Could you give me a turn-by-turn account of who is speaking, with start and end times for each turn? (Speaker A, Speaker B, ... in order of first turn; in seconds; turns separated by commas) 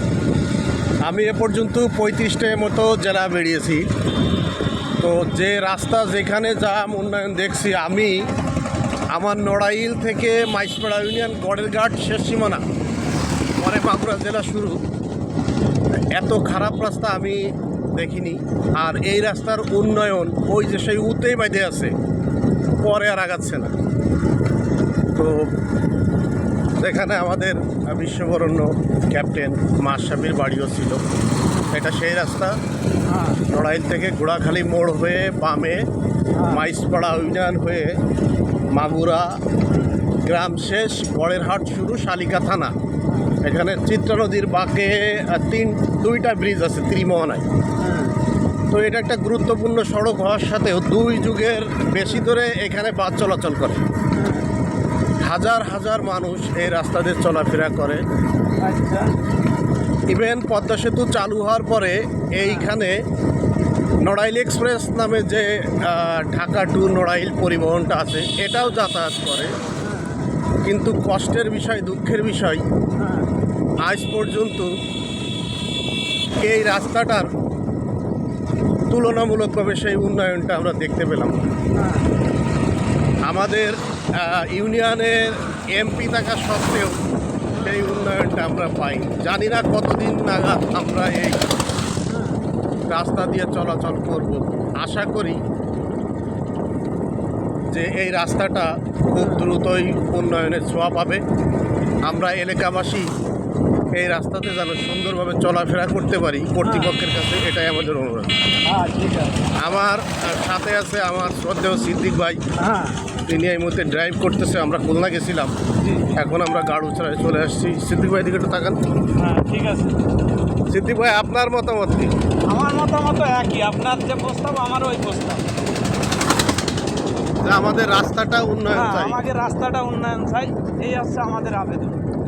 Speaker A: 1.0-3.9, Speaker A: 5.0-8.3, Speaker A: 9.1-12.6, Speaker A: 13.6-14.8, Speaker A: 16.1-21.9, Speaker A: 22.8-23.7, Speaker A: 25.1-25.5, Speaker A: 26.8-31.0, Speaker A: 31.7-32.6, Speaker B: 33.1-33.4, Speaker A: 33.4-35.9, Speaker A: 36.4-38.0, Speaker A: 38.7-39.4, Speaker A: 40.2-42.7, Speaker A: 43.4-47.5, Speaker B: 47.8-48.1, Speaker A: 48.7-53.8, Speaker B: 54.2-54.5, Speaker A: 55.2-58.0, Speaker B: 58.6-59.1, Speaker A: 60.1-63.0, Speaker A: 64.0-69.5, Speaker A: 70.6-72.6, Speaker B: 73.0-73.2, Speaker A: 73.8-74.8, Speaker A: 76.4-77.3, Speaker A: 78.9-81.3, Speaker B: 81.8-82.0, Speaker A: 83.2-87.0, Speaker A: 87.5-91.4, Speaker A: 92.9-95.4, Speaker A: 97.7-101.2, Speaker A: 102.0-103.1, Speaker A: 103.9-108.5, Speaker B: 106.6-106.9, Speaker B: 108.6-109.4, Speaker A: 109.5-112.4, Speaker B: 112.6-113.0, Speaker A: 113.2-115.5, Speaker B: 115.8-116.1, Speaker A: 116.1-118.8, Speaker B: 119.2-120.0, Speaker A: 120.7-122.1, Speaker B: 122.5-125.5, Speaker A: 127.4-129.2, Speaker B: 128.7-132.0